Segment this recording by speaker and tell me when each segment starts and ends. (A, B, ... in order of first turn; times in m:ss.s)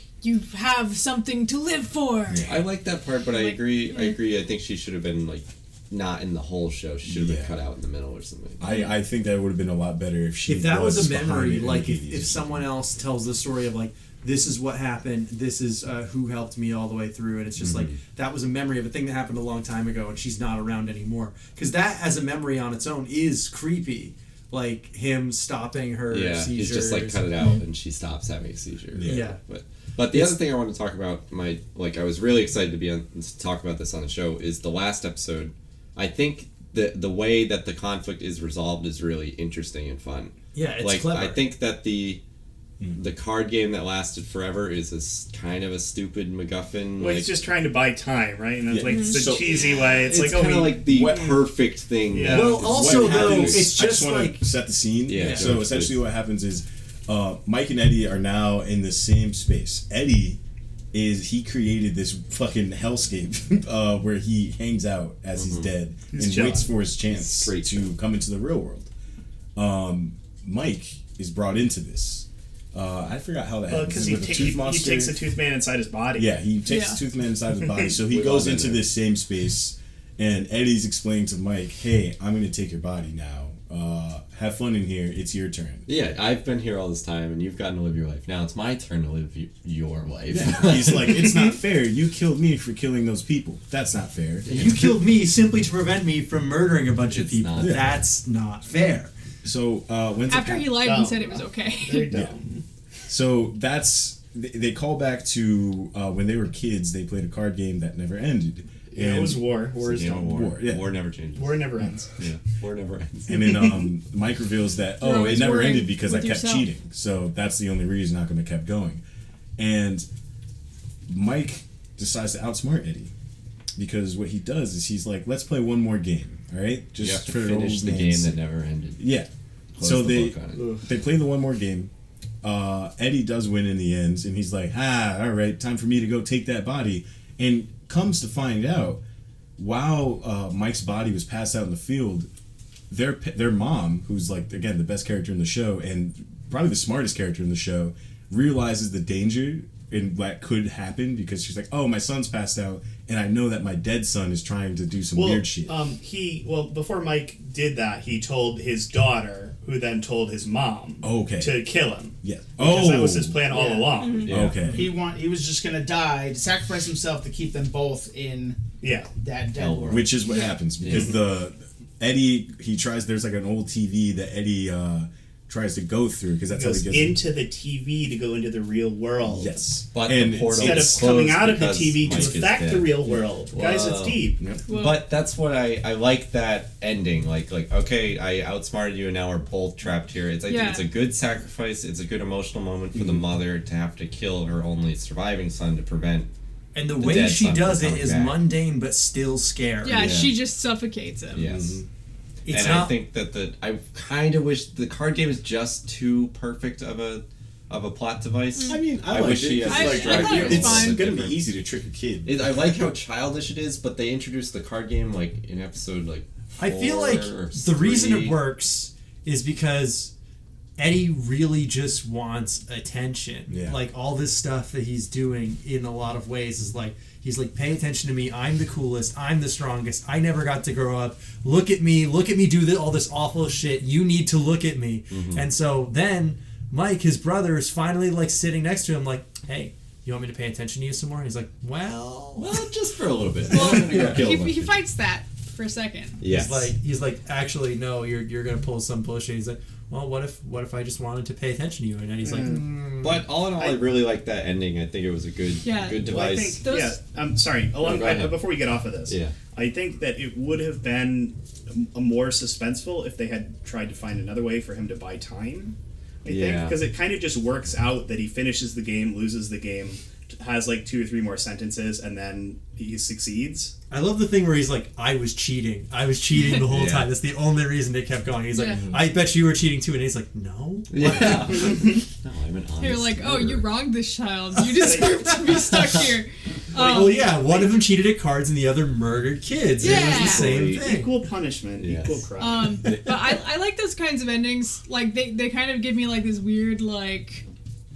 0:00.2-0:02.5 A
0:02.3-0:02.6 B
0:02.5-0:08.7 C
0:03.2-0:04.2 A
0:07.0-0:07.5 B
0:08.6-0:12.7 B
0:08.6-0:09.0 A
0:10.4-0:27.3 D
0:17.6-0:18.0 C
0:26.1-0:42.2 C
0:27.4-0:27.6 A
0:28.9-0:29.3 B
0:29.0-0:29.4 D
0:30.1-0:30.4 D
0:40.5-0:41.4 D
0:42.9-0:47.3 C
0:47.0-0:50.8 E
0:48.7-0:49.7 B
0:48.8-0:50.1 A
0:49.8-0:53.7 C
0:50.9-0:51.4 B
0:52.1-0:52.6 E
0:52.3-0:54.4 D
0:52.5-1:00.4 B
0:55.1-0:56.0 C
0:55.1-0:55.5 D
1:00.9-1:08.9 B
1:05.4-1:05.7 C
1:06.1-1:06.7 E
1:07.1-1:07.9 C
1:09.6-1:15.2 B
1:13.7-1:16.4 E
1:16.2-1:25.8 B
1:16.6-1:17.0 A
1:17.6-1:17.9 E
1:18.1-1:18.9 C
1:25.8-1:31.4 C
1:30.3-1:34.5 B
1:34.5-1:34.9 C
1:34.5-1:39.1 D
1:37.1-1:38.0 C
1:37.6-1:38.0 B
1:39.4-1:40.8 B
1:40.3-1:42.2 A
1:40.8-1:42.6 E
1:43.1-1:50.9 B
1:48.9-1:50.2 E
1:49.8-1:53.6 C
1:51.3-1:52.1 E
1:53.3-1:59.0 B
1:55.0-1:56.7 A
1:59.6-2:00.0 B
2:01.1-2:03.1 B
2:03.8-2:08.3 B
2:07.0-2:09.0 C
2:09.0-2:09.3 B
2:09.8-2:10.7 C
2:09.8-2:11.9 B
2:12.4-2:19.0 B
2:19.6-2:22.3 B
2:22.9-2:35.8 B
2:35.1-2:44.2 E
2:41.0-2:41.6 B
2:42.2-2:43.4 B
2:43.5-2:44.0 F
2:43.9-2:44.3 A
2:44.2-2:44.6 C
2:44.3-2:44.9 B
2:44.6-2:48.6 F
2:48.8-2:49.1 E
2:49.1-2:50.3 F
2:49.5-2:50.2 C
2:49.9-2:57.2 B
2:50.8-2:51.2 C
2:50.9-2:51.2 E
2:56.5-2:59.6 E
2:59.3-3:01.1 B
2:59.9-3:16.3 C
3:00.5-3:04.4 E
3:04.7-3:05.0 A
3:10.4-3:10.8 A
3:12.9-3:13.3 B
3:16.7-3:20.0 D
3:17.0-3:18.4 C
3:19.8-3:21.5 A
3:20.0-3:20.3 B
3:20.0-3:20.3 C
3:21.3-3:21.8 C
3:21.4-3:21.8 B
3:22.4-3:23.0 D
3:22.5-3:31.4 C
3:28.6-3:28.8 A
3:28.7-3:32.9 B
3:29.6-3:31.1 A
3:32.2-3:38.4 C
3:36.6-3:40.1 D
3:40.8-4:02.6 D
3:43.5-3:43.8 B
3:55.1-3:55.4 C
4:02.4-4:04.8 C
4:03.5-4:06.2 A
4:03.5-4:04.2 D
4:06.2-4:06.7 C
4:06.2-4:13.2 D
4:12.2-4:12.8 E
4:13.0-4:16.6 C
4:15.6-4:17.0 A
4:16.0-4:33.7 E
4:17.8-4:18.5 C
4:19.1-4:19.4 C
4:26.2-4:26.8 C
4:33.9-4:41.8 D
4:36.6-4:37.1 C
4:38.5-4:38.8 A
4:38.8-4:39.0 B
4:40.9-4:43.8 C
4:41.6-4:42.0 E
4:42.8-4:47.5 A
4:44.8-4:45.8 D
4:44.8-4:45.3 E
4:45.7-4:46.0 C
4:46.7-4:47.6 E
4:46.8-4:51.1 D
4:49.8-4:50.5 A
4:49.8-4:50.8 C
4:50.5-4:52.9 E
4:51.8-4:53.4 C
4:52.4-4:57.4 A